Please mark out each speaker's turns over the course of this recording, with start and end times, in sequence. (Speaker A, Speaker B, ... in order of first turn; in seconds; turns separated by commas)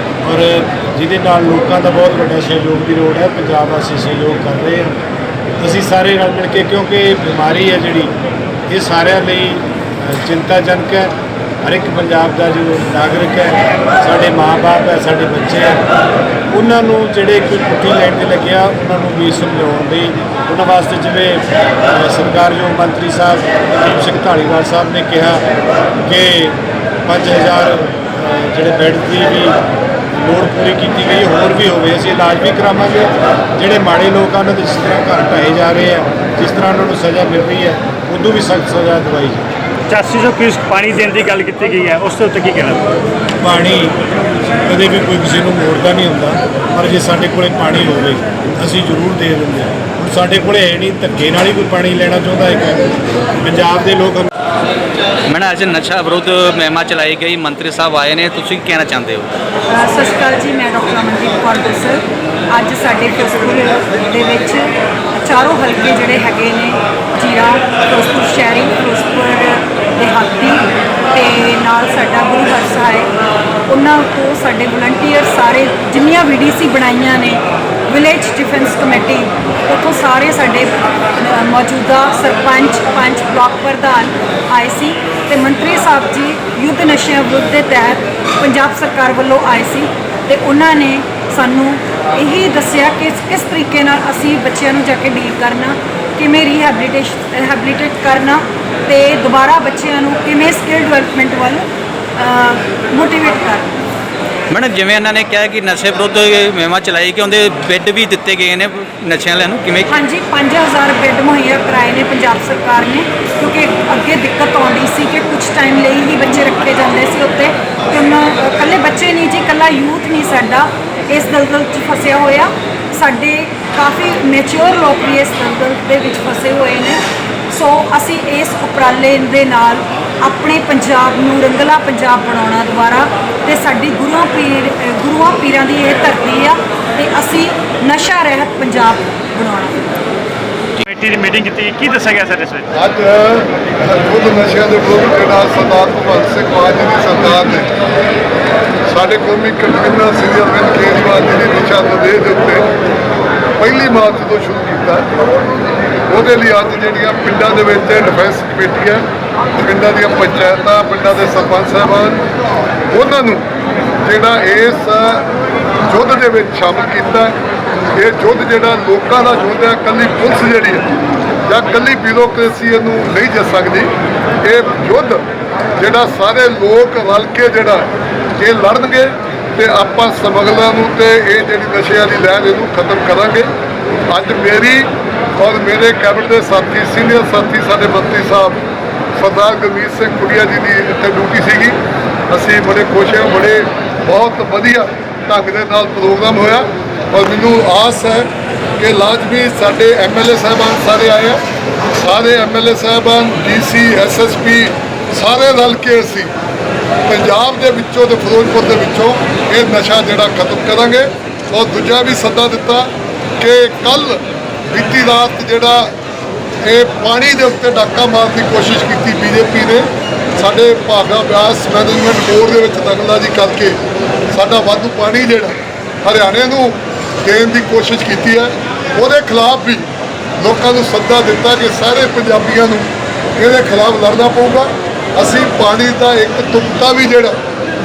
Speaker A: 0.2-5.0, Speaker A: 5.6-8.1, Speaker A: 8.7-15.9, Speaker A: 16.5-25.5, Speaker A: 26.0-29.6, Speaker A: 30.1-39.5, Speaker B: 39.9-42.9, Speaker A: 43.4-44.0, Speaker A: 44.6-54.3, Speaker C: 55.3-59.3, Speaker D: 59.7-73.1, Speaker D: 73.7-103.7, Speaker C: 104.5-109.9, Speaker D: 109.9-139.8, Speaker B: 140.8-142.7, Speaker E: 142.7-147.7, Speaker E: 148.9-152.7, Speaker E: 153.6-155.1, Speaker E: 156.1-159.1, Speaker E: 159.6-162.3, Speaker E: 162.9-163.4, Speaker E: 164.0-165.3, Speaker E: 165.9-167.4, Speaker E: 167.9-170.9, Speaker E: 171.5-175.2, Speaker E: 175.8-183.5, Speaker E: 184.1-188.6, Speaker E: 189.2-191.8, Speaker E: 192.3-201.4, Speaker E: 202.0-206.3, Speaker E: 207.1-215.9, Speaker E: 216.6-223.8, Speaker E: 224.3-229.9, Speaker E: 230.4-237.4